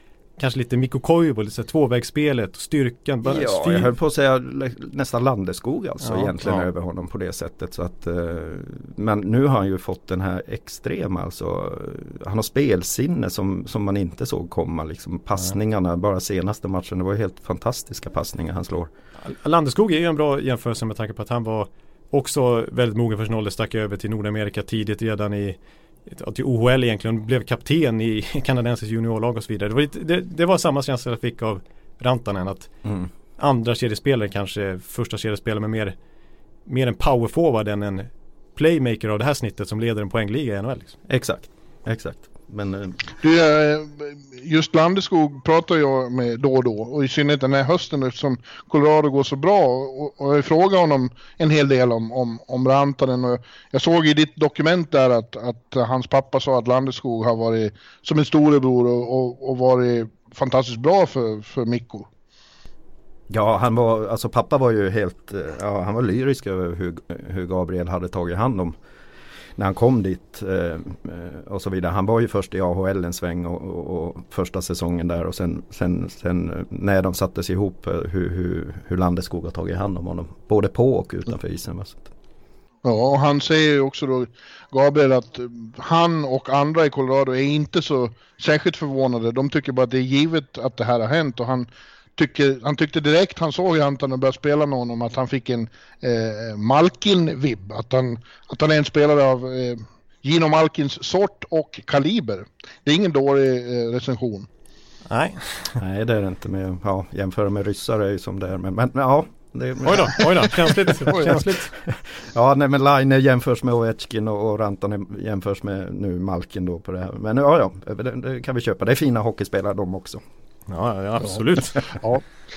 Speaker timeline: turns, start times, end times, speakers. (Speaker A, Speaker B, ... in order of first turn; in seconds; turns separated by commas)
Speaker A: 0.4-3.9, Speaker B: 3.2-18.9, Speaker A: 6.0-6.7, Speaker A: 19.2-32.7, Speaker A: 33.4-35.9, Speaker A: 36.6-40.9, Speaker B: 41.1-43.0, Speaker C: 43.2-62.1, Speaker B: 63.3-68.8, Speaker B: 69.6-82.1, Speaker C: 82.8-104.5, Speaker A: 105.1-105.7, Speaker B: 105.8-120.2, Speaker A: 109.8-111.7, Speaker A: 120.7-121.8